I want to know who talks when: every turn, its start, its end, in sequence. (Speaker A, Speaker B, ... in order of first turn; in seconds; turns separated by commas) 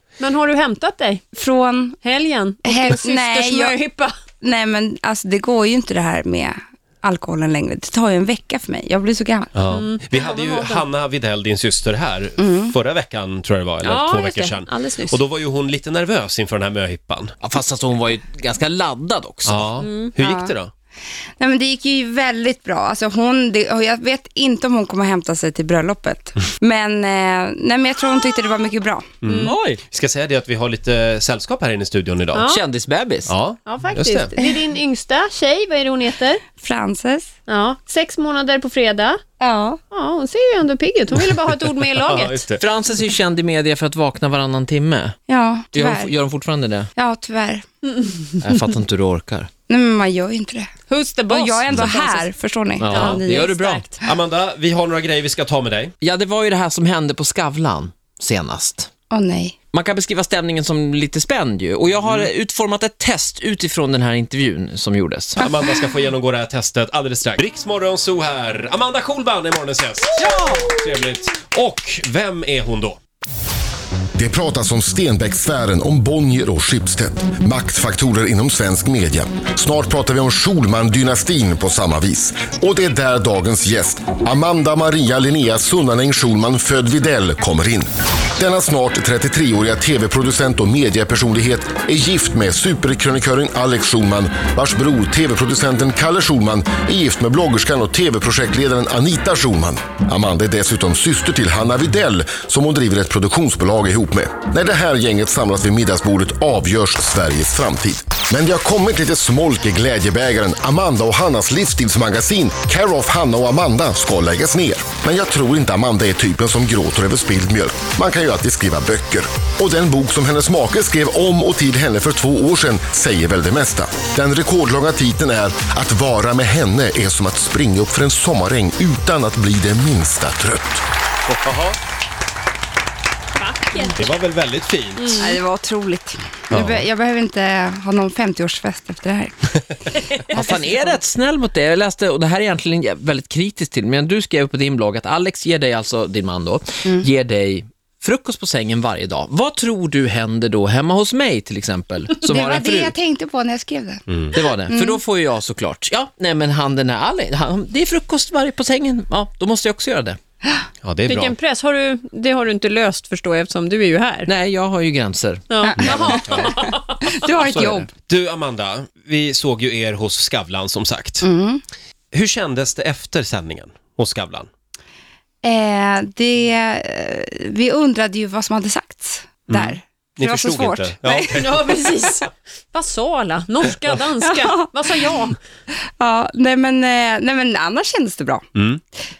Speaker A: 0.2-1.2, Speaker B: 1.4-2.0, Speaker A: 2.0-4.1, Speaker B: 2.6-3.8, Speaker B: 4.4-9.5, Speaker C: 9.5-17.3, Speaker A: 9.7-10.8, Speaker B: 12.4-12.7, Speaker A: 13.8-15.2, Speaker D: 17.4-19.7, Speaker C: 19.4-20.7, Speaker A: 19.8-20.1, Speaker B: 20.2-20.5, Speaker B: 21.4-29.1, Speaker C: 29.2-32.5, Speaker A: 29.2-29.5, Speaker D: 29.4-29.8, Speaker A: 32.3-32.6, Speaker D: 32.5-33.3, Speaker C: 33.2-34.3, Speaker A: 33.6-36.4, Speaker B: 36.6-37.3, Speaker A: 37.5-39.2, Speaker B: 39.4-39.8, Speaker A: 39.9-42.4, Speaker C: 41.9-42.6, Speaker D: 42.6-45.2, Speaker B: 45.3-46.1, Speaker D: 45.7-46.9, Speaker B: 46.9-47.6, Speaker D: 48.4-49.5, Speaker B: 49.7-50.7, Speaker A: 50.9-52.3, Speaker B: 51.3-53.7, Speaker D: 52.8-53.8, Speaker A: 52.9-53.9, Speaker C: 54.0-55.9, Speaker D: 56.0-58.9, Speaker B: 59.1-59.5, Speaker D: 59.7-65.4, Speaker C: 62.0-62.3, Speaker C: 65.4-73.0, Speaker D: 70.2-70.8, Speaker E: 74.2-130.8, Speaker C: 131.3-131.8, Speaker A: 133.3-134.1, Speaker C: 134.0-135.2, Speaker A: 135.0-135.3, Speaker B: 135.2-139.9, Speaker C: 136.5-136.8, Speaker A: 140.1-140.4, Speaker D: 140.3-152.9, Speaker B: 140.5-140.8, Speaker B: 152.2-154.0, Speaker C: 154.1-154.4, Speaker D: 154.3-160.2, Speaker B: 154.6-155.0, Speaker C: 160.8-161.3, Speaker A: 161.1-164.3, Speaker D: 164.2-165.5, Speaker A: 165.5-167.1, Speaker B: 165.6-167.9, Speaker C: 165.8-166.5, Speaker C: 167.4-171.3, Speaker B: 171.2-171.6, Speaker C: 172.1-174.5, Speaker B: 175.4-181.6, Speaker C: 179.5-181.5, Speaker A: 181.3-185.3, Speaker B: 184.2-185.0, Speaker B: 186.0-188.4, Speaker C: 188.5-188.8